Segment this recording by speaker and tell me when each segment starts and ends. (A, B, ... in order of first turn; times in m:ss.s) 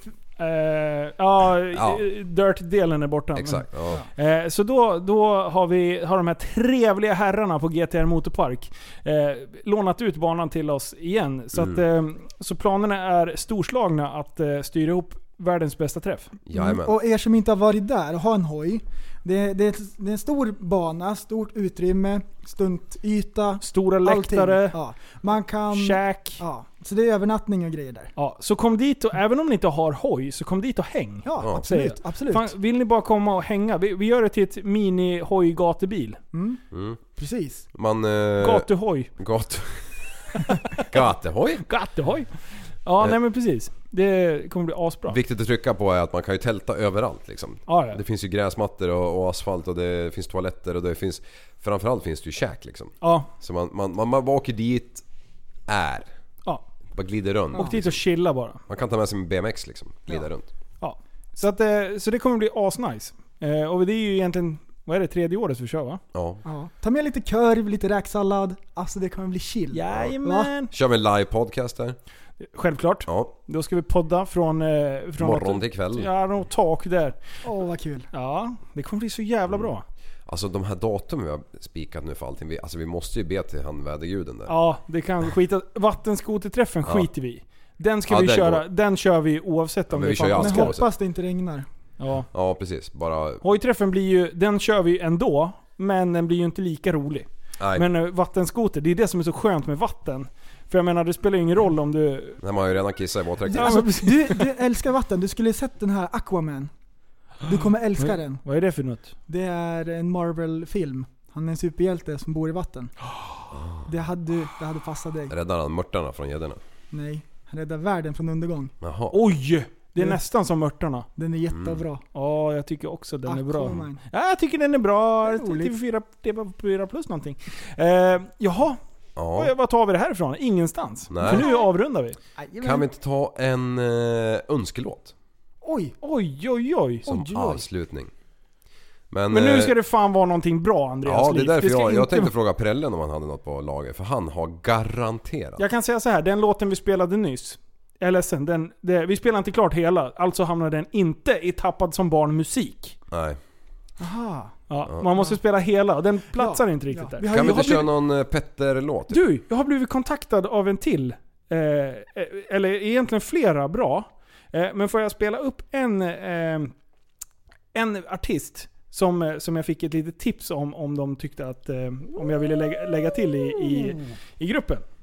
0:00.4-0:16.3 A
0:01.7-0:02.0 B
0:03.4-0:04.0 B
0:11.5-0:11.8 B
0:16.4-0:17.0 B
0:16.5-0:28.1 C
0:23.6-0:24.8 A
0:25.7-0:26.4 A
0:28.2-0:36.2 A
0:31.2-0:32.5 C
0:36.3-0:36.6 C
0:36.7-0:37.0 B
0:37.2-0:37.7 C
0:37.7-0:41.7 B
0:38.4-0:39.1 A
0:41.7-0:45.2 A
0:45.1-0:55.1 B
0:47.7-0:48.0 A
0:53.0-0:53.3 A
0:55.7-0:56.1 B
0:56.9-1:00.5 B
0:57.5-0:58.6 A
1:00.8-1:06.0 A
1:06.1-1:06.4 B
1:06.4-1:10.5 C
1:09.7-1:10.7 A
1:10.7-1:12.0 B
1:12.4-1:17.2 A
1:13.1-1:13.3 B
1:15.2-1:16.1 B
1:17.4-1:18.1 C
1:18.1-1:19.8 A
1:20.3-1:24.6 B
1:24.5-1:30.8 A
1:28.1-1:28.6 B
1:29.9-1:30.9 B
1:30.4-1:31.7 C
1:32.0-1:32.3 A
1:32.3-1:33.4 B
1:33.4-1:42.4 A
1:37.6-1:37.9 B
1:42.4-1:43.9 B
1:43.5-1:46.7 C
1:43.5-1:44.4 A
1:47.4-1:48.4 C
1:48.0-1:49.1 A
1:49.3-1:53.0 C
1:53.5-1:53.9 B
1:53.9-1:55.3 C
1:55.3-1:56.6 B
1:56.9-1:58.7 C
1:58.8-1:59.2 B
1:59.1-2:01.1 A
2:01.2-2:02.0 C
2:01.5-2:01.8 B
2:02.1-2:08.8 A
2:03.3-2:04.0 C
2:05.2-2:05.7 C
2:09.2-2:09.5 B
2:09.3-2:12.2 A
2:11.1-2:11.5 B
2:11.2-2:11.7 C
2:12.4-2:12.9 C
2:12.6-2:15.1 B
2:15.6-2:16.0 C
2:16.0-2:17.6 A
2:17.1-2:18.1 B
2:19.1-2:19.8 B
2:19.3-2:22.3 A
2:21.0-2:25.6 B
2:25.6-2:33.0 A
2:33.1-2:33.4 B
2:34.0-2:34.6 C
2:34.7-2:37.9 A
2:35.1-2:35.4 C
2:36.3-2:37.8 C
2:37.3-2:39.2 B
2:39.1-2:46.7 A
2:47.7-2:54.8 A